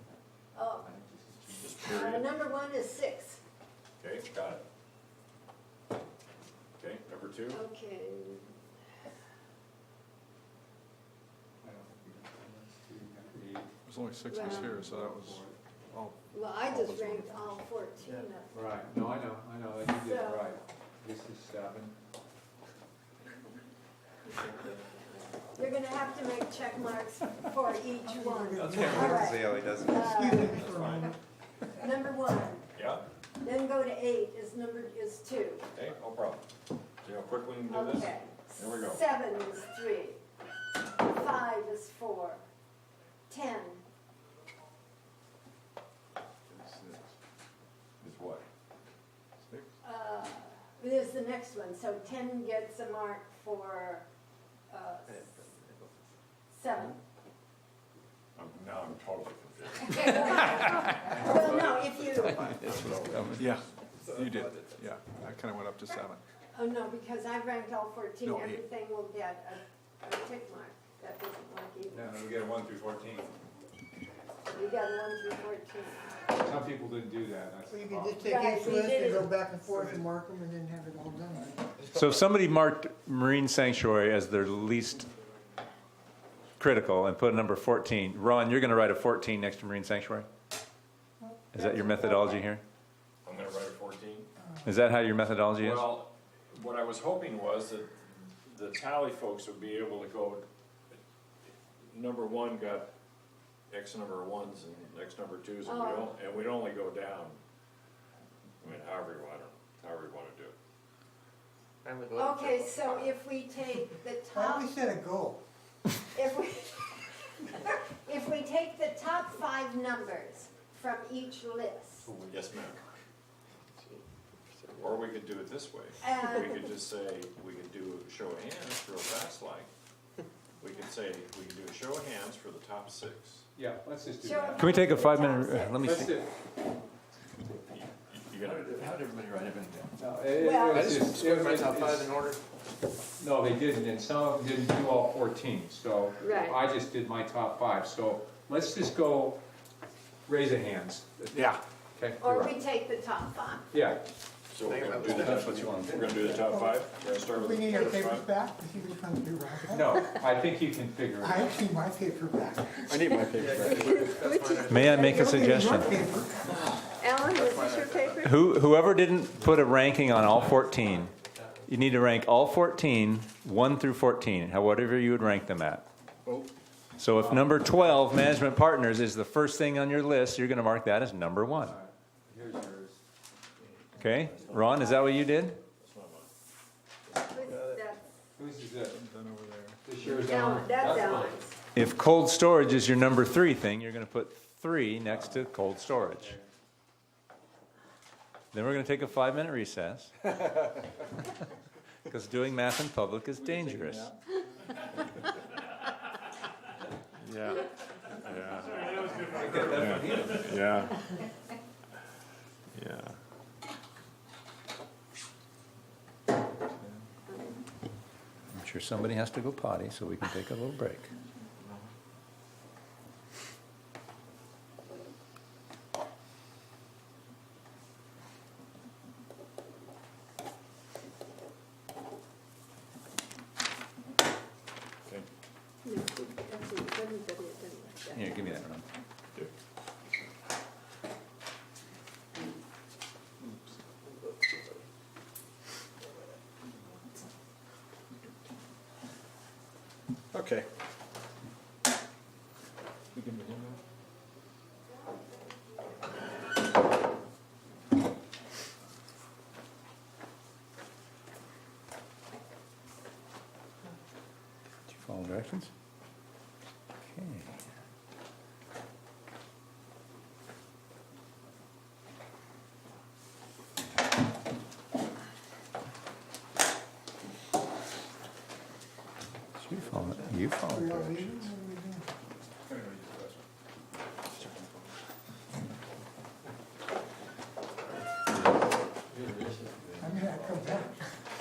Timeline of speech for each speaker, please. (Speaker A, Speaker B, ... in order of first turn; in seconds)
Speaker A: 0.5-1.0, 1.6-3.4, 7.3-8.5, 14.3-14.8, 16.3-18.6, 19.9-20.5, 25.5-30.6, 31.8-32.7, 33.4-35.8, 37.6-40.2, 40.8-42.4, 43.3-43.8, 49.8-54.0, 54.7-55.2, 56.5-57.0, 59.7-62.5, 66.5-72.1, 74.5-76.2, 78.3-79.2, 99.4-99.8, 105.6-106.9, 112.1-114.7, 116.1-122.2, 126.0-126.7, 134.2-135.9, 138.3-138.9, 140.3-140.8, 146.2-146.6, 152.2-153.7, 154.6-158.1, 163.1-165.3, 166.9-168.3, 184.6-184.9, 187.2-188.0, 190.0-191.6, 235.8-238.2
Speaker B: 0.8-1.7, 11.6-13.7, 14.3-15.6, 18.5-22.0, 71.9-73.2, 76.3-78.5, 122.0-122.8, 133.5-134.8, 135.8-136.3, 140.0-142.2, 143.2-149.4, 150.3-152.5, 153.7-154.0, 159.7-161.6, 177.3-178.0, 181.6-183.0, 188.4-189.0, 189.8-191.3, 203.5-204.0, 209.4-210.2, 282.7-283.4
Speaker C: 1.6-2.3, 4.0-4.6, 6.8-7.6, 28.6-29.1, 30.5-31.1, 32.7-33.0, 35.8-36.4, 37.0-39.0, 48.0-48.4, 58.4-60.4, 62.5-63.2, 93.2-94.3, 95.6-97.9, 98.5-100.4, 101.9-102.9, 103.7-107.4, 108.6-110.5, 122.2-122.8, 124.8-129.7, 130.6-133.4, 137.4-138.6, 154.7-158.2, 185.8-186.3, 208.2-210.9, 212.7-213.2
Speaker D: 13.9-17.6, 46.6-47.0, 63.3-66.2, 68.2-68.6, 176.2-176.5, 188.9-189.8, 253.1-253.8
Speaker E: 24.5-25.1, 55.1-55.9, 61.1-63.5, 64.0-64.9, 111.8-113.2, 124.6-125.1, 138.4-139.9, 140.7-142.4, 154.6-156.2, 162.9-165.1, 167.2-168.2, 170.2-171.6, 244.0-244.6, 289.1-290.7
Speaker F: 28.0-31.2, 77.7-81.7, 91.2-91.9, 114.3-115.4, 156.2-160.1, 161.2-163.0, 164.8-166.5, 280.7-282.1, 290.0-291.0
Speaker G: 28.6-30.2, 62.7-63.4, 81.9-85.1, 86.6-90.3, 91.5-92.6, 94.6-95.9, 134.6-136.1, 155.1-155.9, 164.6-166.0, 168.2-171.1, 171.7-175.8, 177.0-181.7, 184.0-185.6, 191.7-196.4, 198.5-200.3, 202.1-204.1, 209.3-210.5, 218.5-221.1, 238.1-238.8, 264.9-265.7, 267.1-267.6, 279.6-281.4